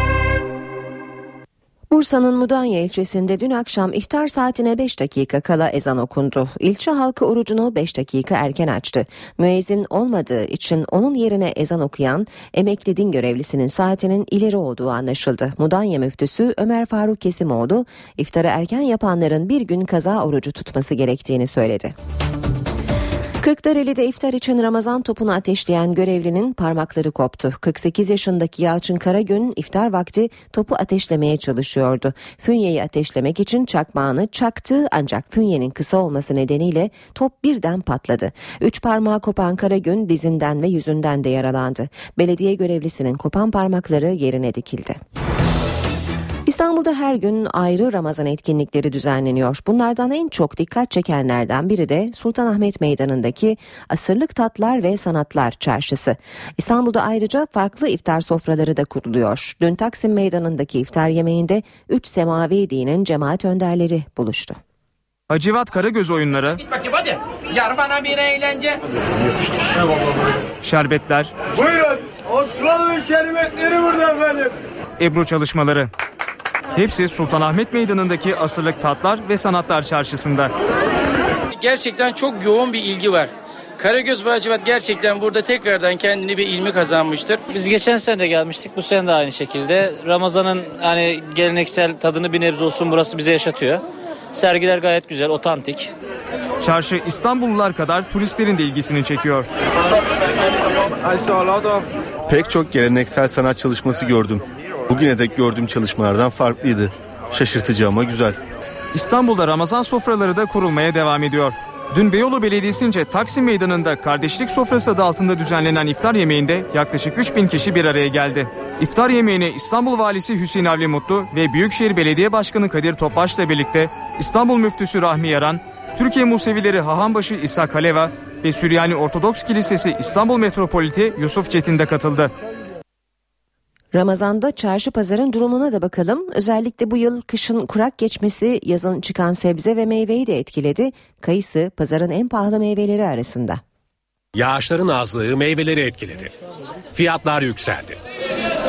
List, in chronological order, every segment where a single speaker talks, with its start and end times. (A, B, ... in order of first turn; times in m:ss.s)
0:01.9-0:22.0 A
0:23.4-0:45.0 A
0:46.5-1:04.6 A
1:05.3-1:06.6 B
1:10.6-1:11.3 B
1:15.0-1:15.9 B
1:16.8-1:20.5 B
1:21.5-1:27.5 C
1:27.8-1:33.7 D
1:34.4-1:35.8 D
1:36.6-1:39.5 B
1:42.3-1:48.4 E
1:48.9-2:12.3 B
2:13.9-2:23.6 A
2:24.4-2:26.3 F
2:26.9-2:28.0 F